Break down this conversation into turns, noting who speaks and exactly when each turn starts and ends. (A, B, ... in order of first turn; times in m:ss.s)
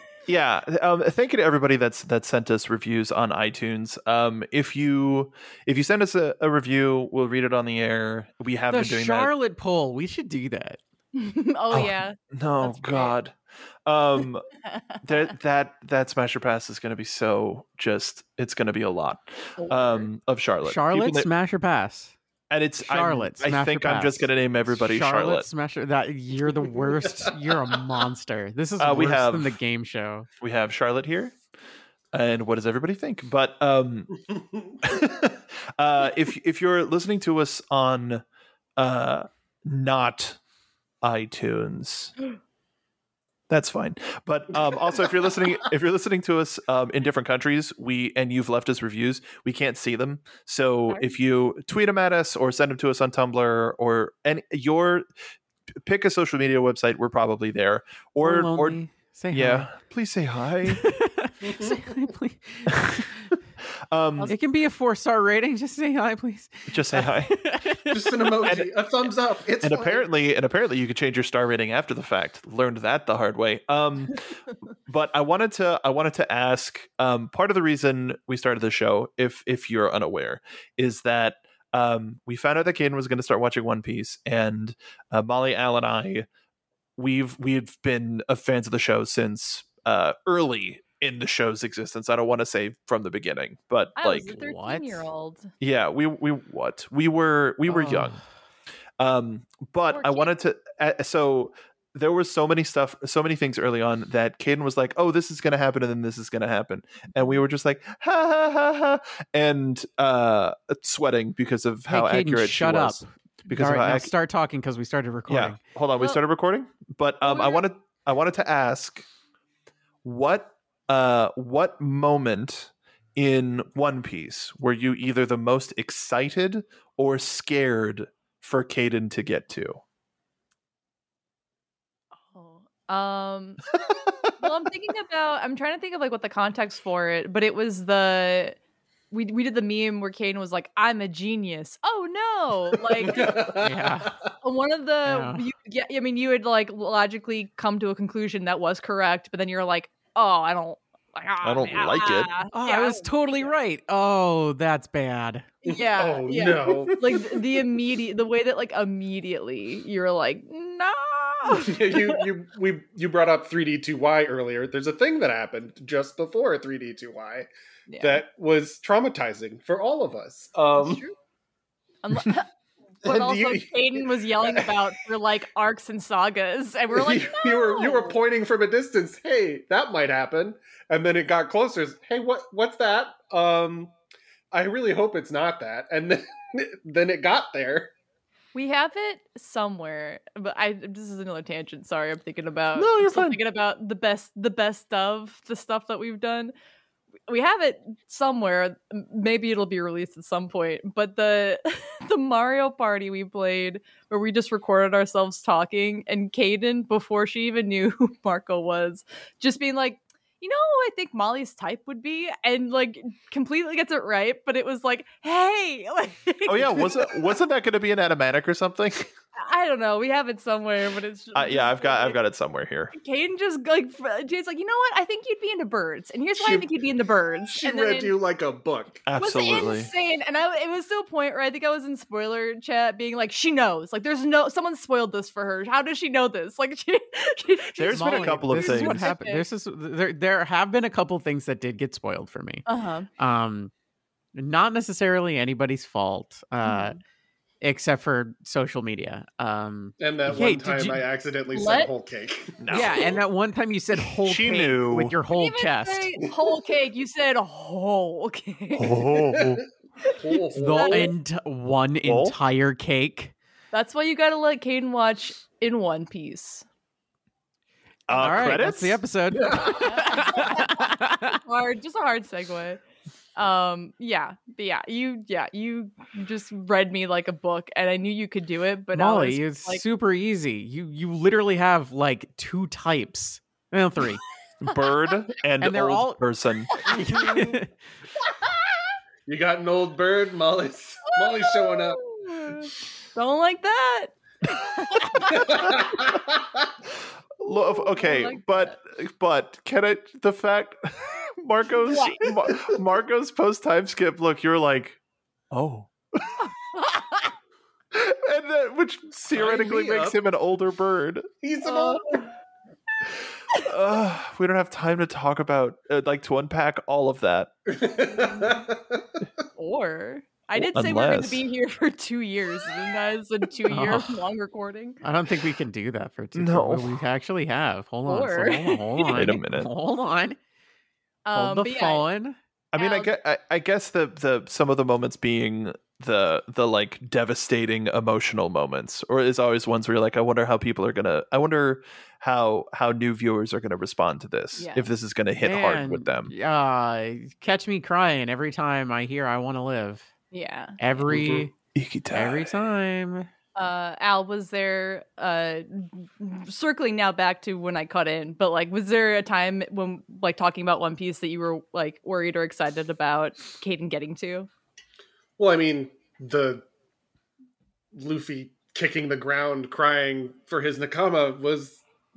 0:00.3-0:09.3 A
0:08.7-0:10.8 B
0:11.1-0:13.1 C
0:11.7-0:14.4 A
0:15.0-0:21.3 A
0:19.6-0:20.1 C
0:20.6-0:22.2 B
0:22.5-0:25.5 A
0:22.8-0:30.3 B
0:27.2-0:27.7 D
0:28.8-0:29.6 A
0:30.4-0:31.4 A
0:32.1-0:34.1 A
0:34.8-0:38.2 A
0:38.8-0:40.4 A
0:41.0-0:42.1 A
0:43.5-0:55.0 A
0:50.9-0:51.2 C
0:55.8-0:58.8 A
0:58.2-0:59.7 B
0:59.3-1:00.8 A
1:00.7-1:03.3 B
1:01.4-1:01.9 D
1:03.9-1:04.3 A
1:04.2-1:08.5 B
1:06.7-1:07.3 A
1:07.9-1:10.1 D
1:08.4-1:08.7 A
1:09.6-1:14.2 A
1:14.9-1:26.2 A
1:27.0-1:34.3 A
1:34.0-1:35.5 C
1:34.3-1:35.0 B
1:35.6-1:38.2 A
1:37.7-1:38.2 B
1:39.0-1:54.1 A
1:39.9-1:40.3 C
1:51.9-1:55.6 B
1:55.3-1:59.0 A
1:57.2-1:57.7 C
2:00.0-2:09.8 A
2:12.3-2:13.7 C
2:14.0-2:14.4 A
2:14.4-2:18.6 C
2:19.1-2:23.5 C
2:22.9-2:24.1 D
2:23.6-2:24.2 B
2:24.4-2:33.5 C
2:25.0-2:25.4 B
2:31.4-2:32.3 A
2:32.5-2:35.4 B
2:35.6-2:37.4 D
2:35.6-2:42.2 C
2:41.5-2:47.5 D
2:47.9-2:48.2 C
2:48.0-2:51.0 D
2:50.7-2:51.1 C
2:52.0-2:52.5 C
2:53.0-2:58.2 C
2:53.0-2:54.7 D
2:56.9-3:03.9 D
3:04.5-3:07.9 D
3:08.5-3:16.5 C
3:12.8-3:13.4 A
3:17.3-3:37.2 C
3:36.4-3:39.1 A
3:39.4-3:42.2 C
3:41.3-3:42.9 A
3:42.9-3:48.1 C
3:46.4-3:46.7 D
3:47.5-3:49.0 D
3:49.0-3:49.9 A
3:49.2-3:59.4 C
3:57.8-3:59.1 A
3:57.9-4:02.6 B
4:02.6-4:03.1 C
4:03.2-4:03.7 B
4:04.3-4:07.0 B
4:06.6-4:07.0 C
4:07.6-4:11.0 B
4:10.0-4:13.0 D
4:11.5-4:11.9 C
4:12.6-4:13.1 A
4:12.7-4:16.1 B
4:14.2-4:15.1 A
4:15.3-4:19.0 C
4:18.8-4:19.6 A
4:18.9-4:21.1 D
4:20.0-4:21.1 C
4:20.5-4:23.3 B
4:22.0-4:22.4 A
4:23.7-4:26.6 C
4:28.1-4:29.0 A
4:28.1-4:31.4 B
4:29.3-4:29.9 D
4:29.6-4:32.8 C
4:33.4-4:39.8 C
4:38.9-4:44.2 B
4:44.6-4:46.7 A
4:45.6-4:46.2 B
4:46.8-4:47.1 C
4:46.8-4:47.7 B
4:46.9-4:47.6 D
4:49.2-4:52.0 D
4:51.2-4:55.9 C
4:55.2-4:56.4 D
4:57.4-5:05.0 A
4:57.4-4:58.8 C
5:01.8-5:02.2 C
5:05.5-5:06.5 A
5:07.9-5:11.3 A
5:09.3-5:10.2 D
5:11.4-5:12.2 D
5:11.6-5:12.3 C
5:13.5-5:17.5 A
5:17.7-5:19.2 D
5:18.2-5:18.5 C
5:19.6-5:25.0 C
5:20.6-5:21.4 A
5:23.7-5:24.2 B
5:25.0-5:30.4 B
5:26.3-5:27.0 A
5:28.1-5:29.3 C
5:29.1-5:29.7 A
5:31.2-5:32.0 C
5:31.3-5:32.4 B
5:32.7-5:46.3 A
5:32.8-5:33.1 C
5:44.6-5:44.9 C
5:45.4-5:50.1 B
5:50.3-5:51.0 C
5:50.8-5:51.5 B
5:51.1-5:51.5 D
5:51.7-5:52.6 A
5:52.1-5:53.3 B
5:53.5-6:04.5 C
6:05.4-6:06.6 D
6:07.9-6:11.8 D